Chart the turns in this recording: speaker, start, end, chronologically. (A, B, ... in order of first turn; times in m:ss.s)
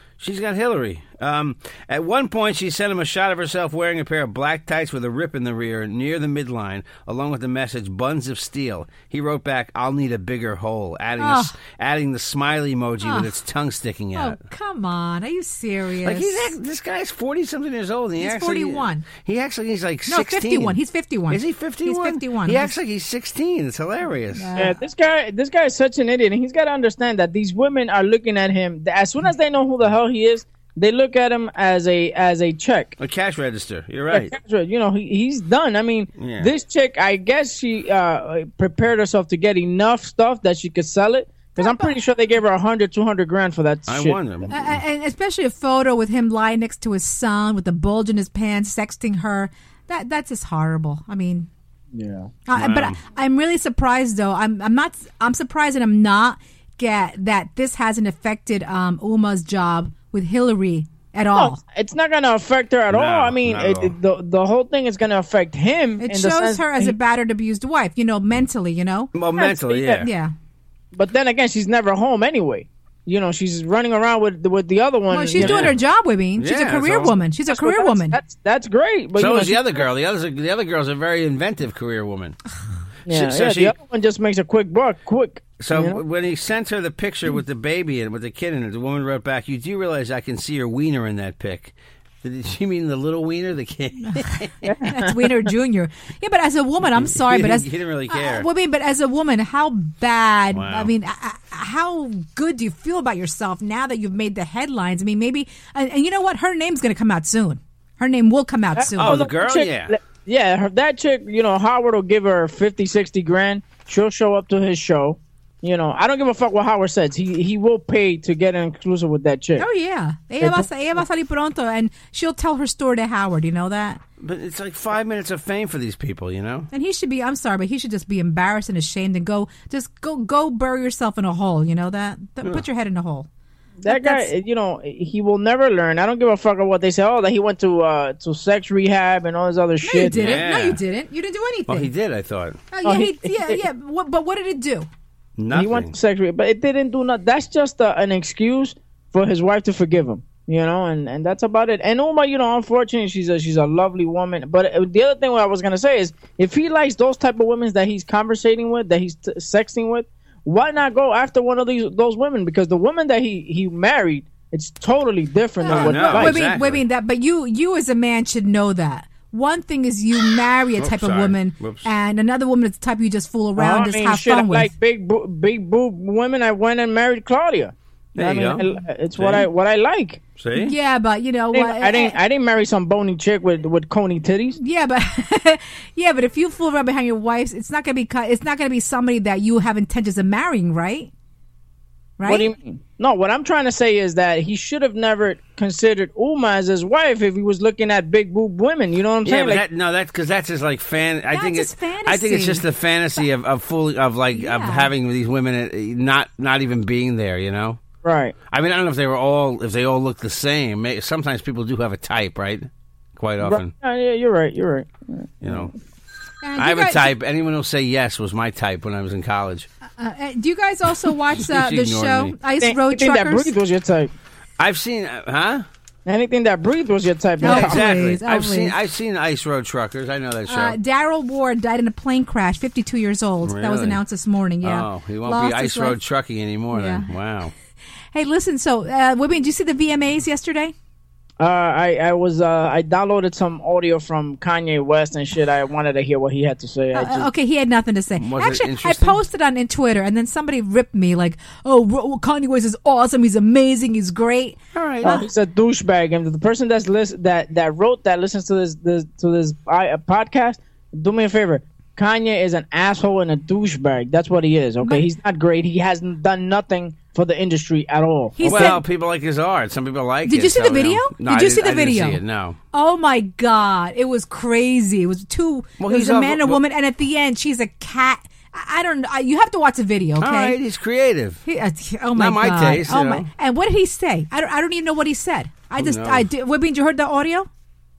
0:00.2-0:14.4 A
0:11.2-0:11.5 B
0:13.0-0:13.3 B
0:14.1-0:16.5 B
0:16.0-0:20.8 A
0:18.2-0:19.1 B
0:20.1-0:22.7 B
0:21.3-0:24.5 A
0:24.4-0:24.8 B
0:24.6-0:32.9 C
0:33.0-0:34.3 A
0:34.1-0:44.5 C
0:36.2-0:36.5 A
0:41.6-0:41.9 B
0:43.9-0:44.7 A
0:44.5-0:51.5 B
0:51.9-0:52.3 C
0:52.5-1:01.6 B
0:52.5-0:53.0 A
1:01.3-1:07.0 C
1:02.9-1:03.9 A
1:06.0-1:09.1 B
1:09.1-1:10.1 A
1:09.7-1:10.3 B
1:10.9-1:15.7 C
1:15.1-1:18.2 B
1:15.4-1:15.7 A
1:16.4-1:17.1 A
1:17.5-1:19.8 C
1:19.2-1:22.4 A
1:23.0-1:23.7 A
1:23.1-1:26.0 C
1:25.6-1:34.5 A
1:34.0-1:49.2 B
1:34.6-1:35.3 C
1:36.9-1:38.5 A
1:40.5-1:40.9 A
1:48.8-1:59.6 C
1:49.0-1:49.9 A
1:59.6-2:04.0 B
2:00.4-2:00.7 C
2:04.2-2:06.7 A
2:06.7-2:13.3 B
2:13.8-2:20.4 C
2:13.8-2:14.3 B
2:19.8-2:21.9 B
2:20.1-2:20.8 A
2:21.7-2:22.6 A
2:22.7-2:24.9 B
2:22.8-2:23.6 C
2:25.4-2:25.9 A
2:25.5-2:46.4 C
2:45.6-2:54.7 B
2:45.7-2:46.8 A
2:50.8-2:51.9 A
2:53.6-3:00.2 C
2:58.2-2:58.6 A
2:59.2-2:59.5 A
3:00.4-3:00.7 A
3:00.6-3:02.2 B
3:01.5-3:04.6 C
3:04.6-3:11.1 B
3:12.2-3:12.5 B
3:12.2-3:19.6 C
3:19.2-3:27.8 A
3:21.3-3:22.6 B
3:24.3-3:24.9 B
3:28.0-3:28.3 C
3:28.5-3:33.7 A
3:33.4-3:35.7 C
3:35.4-3:35.7 A
3:36.4-3:37.1 B
3:36.6-3:39.7 A
3:40.0-3:43.5 B
3:41.3-3:42.3 A
3:42.6-3:44.1 C
3:44.6-3:45.6 A
3:46.0-3:47.8 C
3:47.4-3:48.7 B
3:47.4-3:50.8 A
3:50.5-3:56.0 B
3:53.4-3:54.0 A
3:54.6-3:57.5 A
3:56.7-3:57.1 B
3:58.1-4:00.7 B
4:01.4-4:07.3 C
4:06.9-4:15.2 B
4:08.2-4:09.2 A
4:14.7-4:15.2 A
4:15.0-4:28.8 C
4:28.4-4:28.8 B
4:28.4-4:32.6 A
4:30.2-4:32.2 B
4:32.7-4:40.6 B
4:35.8-4:36.6 A
4:40.2-4:41.4 A
4:41.4-4:47.5 B
4:42.2-4:43.3 A
4:45.8-4:46.2 A